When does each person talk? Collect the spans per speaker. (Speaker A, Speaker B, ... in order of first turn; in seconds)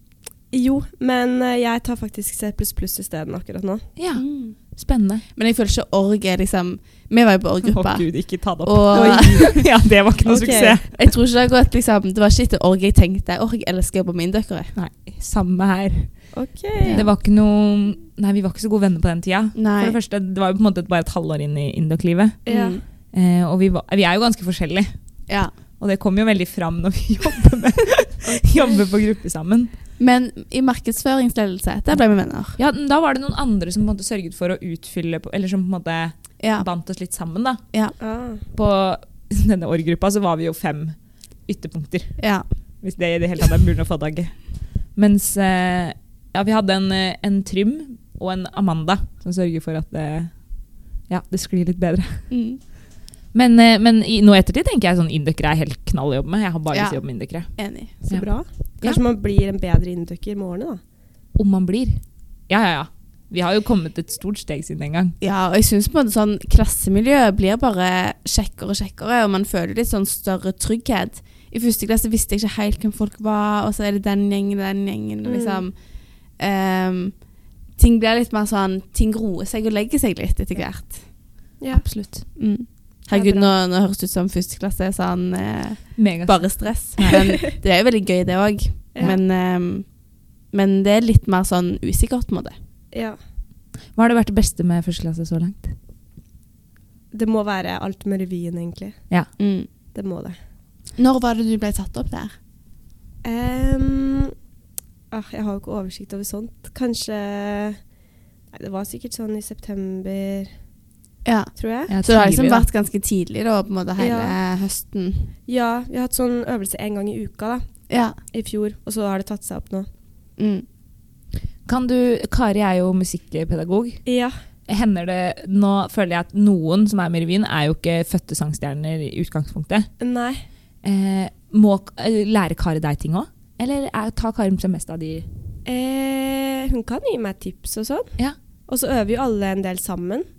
Speaker A: 0.5-3.9, 8.9-9.6, 10.2-10.8, 16.3-17.0, 22.4-22.8, 28.2-28.8, 38.0-38.4, 58.1-60.8, 75.2-75.6, 83.1-83.5, 92.9-93.2, 97.1-99.0, 99.9-100.4, 103.2-104.3, 105.1-107.8, 108.5-110.5, 111.6-111.9, 114.0-114.3, 115.5-117.6, 118.3-119.9, 124.0-124.3, 130.0-130.4, 135.7-138.2, 138.7-140.2
Speaker B: 4.0-5.2, 7.6-11.0, 14.7-16.3, 16.9-22.4, 23.1-24.9, 25.8-29.7, 32.5-37.6, 38.5-42.2, 42.8-44.4, 44.9-50.4, 51.1-52.3, 53.3-57.5, 61.4-65.1, 81.7-82.2, 86.0-87.2, 94.0-95.7, 111.9-112.7, 121.7-124.0, 124.7-129.9, 130.8-135.3
Speaker C: 4.2-4.5, 5.3-9.6, 10.9-14.7, 16.8-17.1, 19.5-20.0, 22.5-22.8, 30.0-32.6, 36.4-36.6, 42.2-42.5, 52.3-52.6, 56.7-58.1, 65.2-75.7, 76.4-77.1, 77.8-81.0, 82.3-89.9, 90.5-92.5, 99.4-99.7, 101.0-102.3, 111.2-115.3, 117.9-118.2, 120.4-120.6